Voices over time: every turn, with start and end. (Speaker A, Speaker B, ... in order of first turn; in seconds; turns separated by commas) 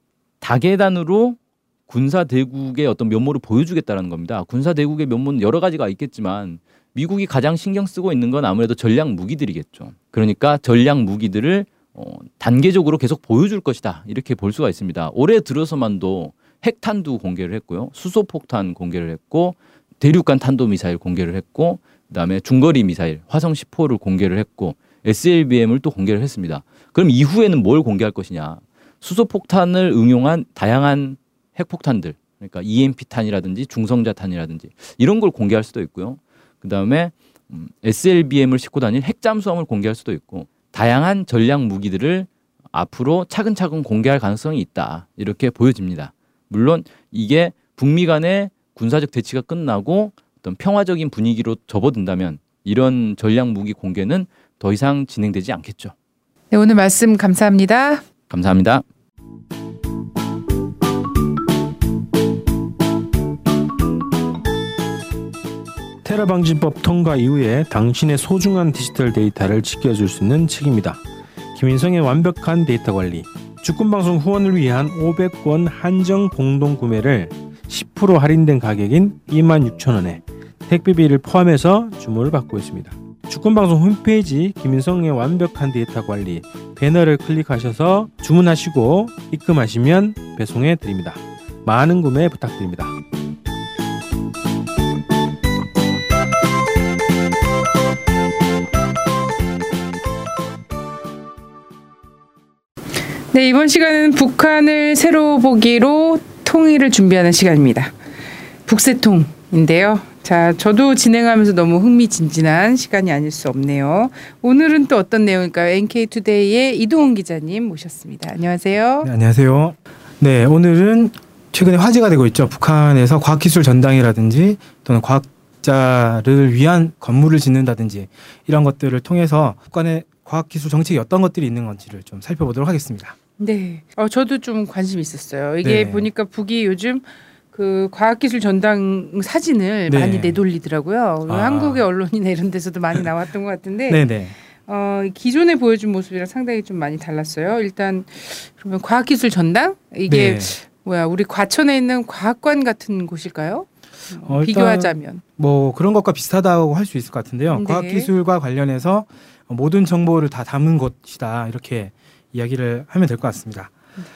Speaker A: 0.4-55.9, Speaker B: 56.5-58.0, Speaker A: 58.3-58.9, Speaker C: 66.0-71.0, Speaker C: 71.5-93.0, Speaker B: 103.3-108.0, Speaker B: 108.7-119.1, Speaker D: 119.0-133.2, Speaker B: 133.4-155.2, Speaker D: 135.6-136.1, Speaker D: 139.9-140.4, Speaker D: 141.3-141.8, Speaker D: 143.9-144.3, Speaker D: 150.1-150.5, Speaker D: 154.3-163.7, Speaker B: 157.5-158.1